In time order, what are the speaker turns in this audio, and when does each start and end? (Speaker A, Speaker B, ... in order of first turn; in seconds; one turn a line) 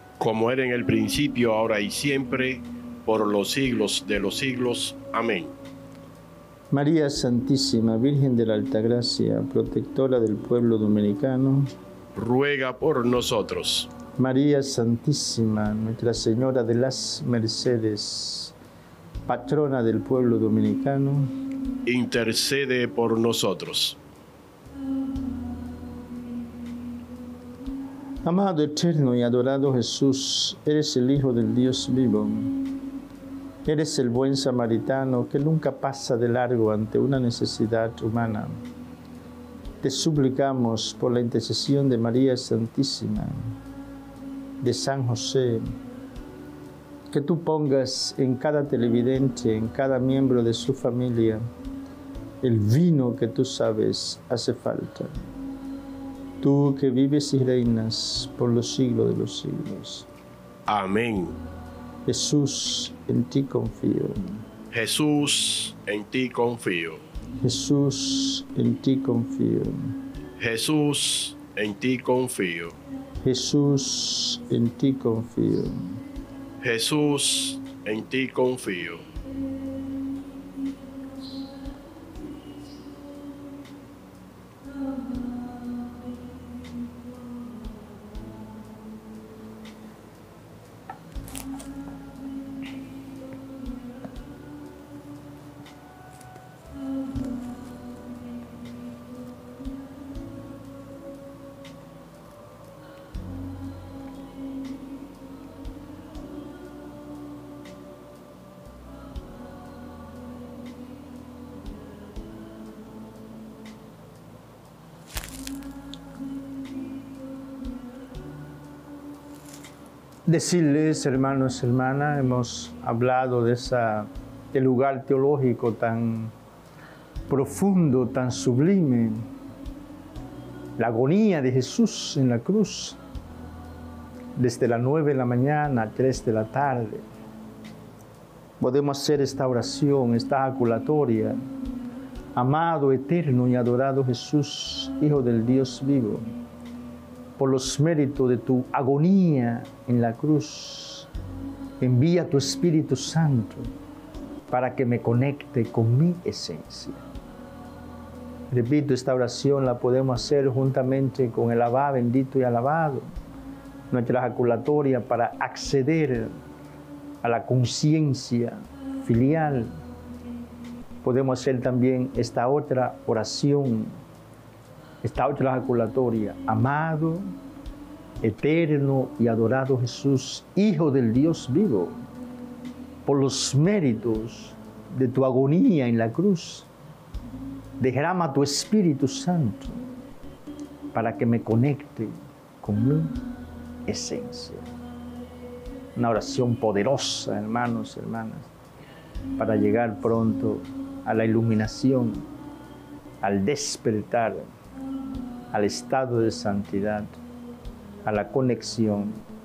Speaker A: 0.2-5.5
Speaker B: 6.7-11.7
Speaker A: 12.1-13.9
Speaker B: 14.2-18.5
Speaker B: 19.3-21.3
Speaker A: 21.9-24.0
Speaker B: 28.2-32.5
Speaker B: 33.6-38.6
Speaker B: 39.8-43.5
Speaker B: 44.6-45.7
Speaker B: 47.1-51.4
Speaker B: 52.4-55.1
Speaker B: 56.4-60.1
Speaker A: 60.7-61.4
Speaker B: 62.0-64.4
Speaker A: 64.7-67.0
Speaker B: 67.4-69.9
Speaker A: 70.4-72.7
Speaker B: 73.2-76.0
Speaker A: 76.6-79.0
Speaker B: 120.3-126.3
Speaker B: 127.3-129.3
Speaker B: 130.8-133.0
Speaker B: 134.3-137.0
Speaker B: 138.6-141.4
Speaker B: 142.3-146.3
Speaker B: 147.4-151.1
Speaker B: 151.8-153.7
Speaker B: 154.5-157.0
Speaker B: 158.5-163.1
Speaker B: 163.9-166.3
Speaker B: 167.2-169.7
Speaker B: 171.0-174.0
Speaker B: 175.0-177.3
Speaker B: 178.2-182.0
Speaker B: 183.1-186.7
Speaker B: 187.8-189.8
Speaker B: 190.9-193.2
Speaker B: 193.9-194.7
Speaker B: 195.9-198.5
Speaker B: 199.4-202.2
Speaker B: 203.2-204.5
Speaker B: 205.5-207.2
Speaker B: 208.0-209.2